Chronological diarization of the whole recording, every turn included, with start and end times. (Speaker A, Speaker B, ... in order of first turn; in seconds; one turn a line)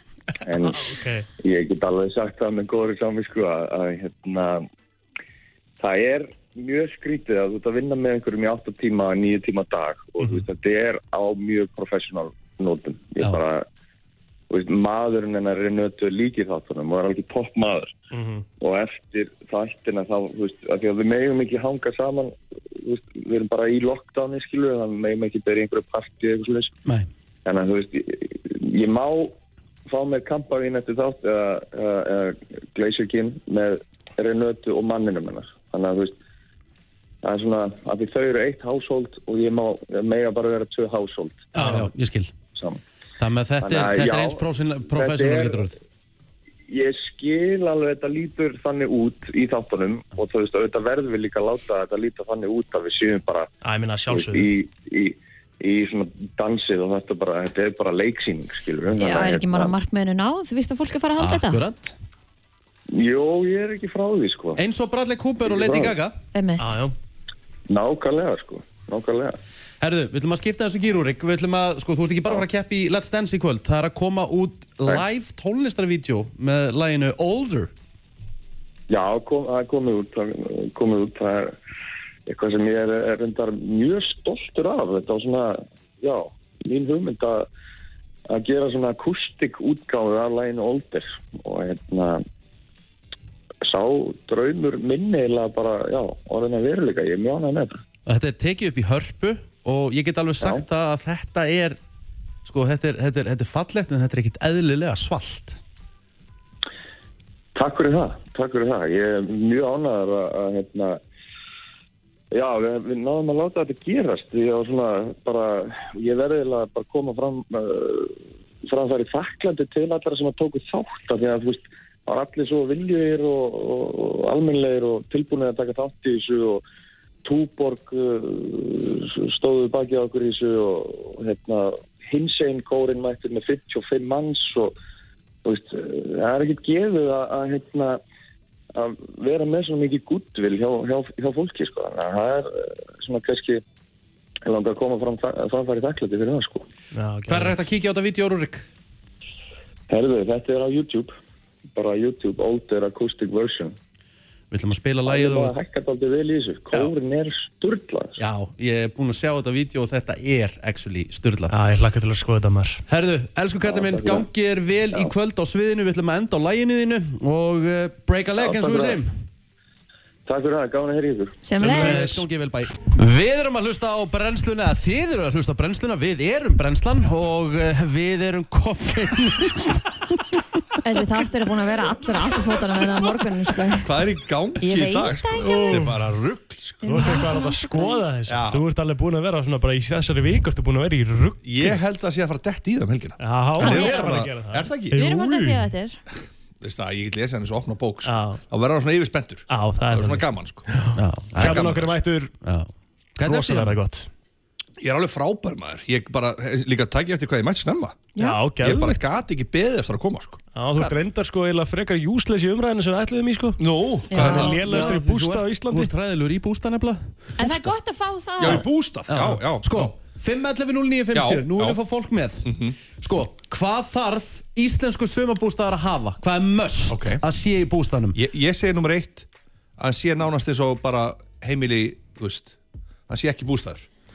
Speaker A: 0.5-0.8
Speaker B: 0.7-1.3
Speaker A: 1.4-4.6
Speaker A: 5.8-13.7
Speaker A: 14.5-17.9
Speaker B: 18.1-18.4
Speaker A: 18.6-26.7
Speaker A: 27.5-29.3
Speaker A: 29.9-36.1
Speaker A: 37.2-41.5
Speaker C: 41.5-42.3
Speaker B: 41.6-41.9
Speaker A: 42.5-42.8
Speaker C: 43.2-45.8
Speaker A: 43.6-45.8
Speaker A: 46.7-53.5
Speaker B: 53.6-54.5
Speaker A: 54.1-59.8
Speaker D: 59.0-61.6
Speaker C: 61.2-62.0
Speaker A: 62.9-64.6
Speaker C: 64.6-66.2
Speaker A: 65.5-66.0
Speaker D: 66.3-66.8
Speaker B: 66.6-66.9
Speaker A: 67.7-69.4
Speaker C: 69.8-77.7
Speaker A: 78.9-81.6
Speaker A: 82.3-87.5
Speaker A: 88.3-92.2
Speaker A: 93.6-97.8
Speaker C: 98.1-101.8
Speaker C: 102.5-105.6
Speaker A: 107.6-111.0
Speaker A: 112.3-126.6
Speaker A: 127.2-134.8
Speaker A: 135.4-138.0
Speaker A: 138.8-143.6
Speaker A: 144.5-146.7
Speaker B: 146.9-147.7
Speaker C: 147.3-148.7
Speaker A: 149.9-151.1
Speaker A: 151.8-153.7
Speaker C: 154.5-155.6
Speaker A: 155.1-158.2
Speaker C: 158.2-161.6
Speaker B: 161.5-162.8
Speaker C: 162.9-169.1
Speaker A: 163.6-164.3
Speaker A: 168.4-169.0
Speaker A: 170.3-171.4
Speaker D: 171.4-172.2
Speaker C: 171.6-180.0
Speaker B: 171.6-172.2
Speaker D: 180.8-183.9
Speaker E: 183.8-187.3
Speaker D: 184.6-186.0
Speaker D: 186.8-188.0
Speaker B: 186.9-191.8
Speaker E: 188.3-188.7
Speaker E: 191.4-195.0
Speaker B: 193.2-195.7
Speaker D: 193.6-194.2
Speaker D: 194.9-196.0
Speaker E: 196.6-200.8
Speaker B: 198.1-198.4
Speaker B: 199.5-202.3
Speaker C: 201.0-201.7
Speaker E: 201.4-202.0
Speaker C: 202.4-203.8
Speaker B: 203.2-204.1
Speaker E: 204.8-208.1
Speaker D: 208.2-208.4
Speaker B: 208.2-209.0
Speaker E: 208.6-210.4
Speaker B: 210.6-213.6
Speaker E: 213.6-215.0
Speaker D: 214.1-214.6
Speaker B: 214.1-215.9
Speaker C: 214.1-217.1
Speaker E: 217.4-217.8
Speaker D: 217.4-218.7
Speaker E: 218.4-219.9
Speaker C: 218.5-228.2
Speaker E: 221.1-221.8
Speaker E: 222.4-222.8
Speaker E: 226.9-227.2
Speaker E: 228.2-229.3
Speaker E: 229.8-232.5
Speaker E: 233.1-233.9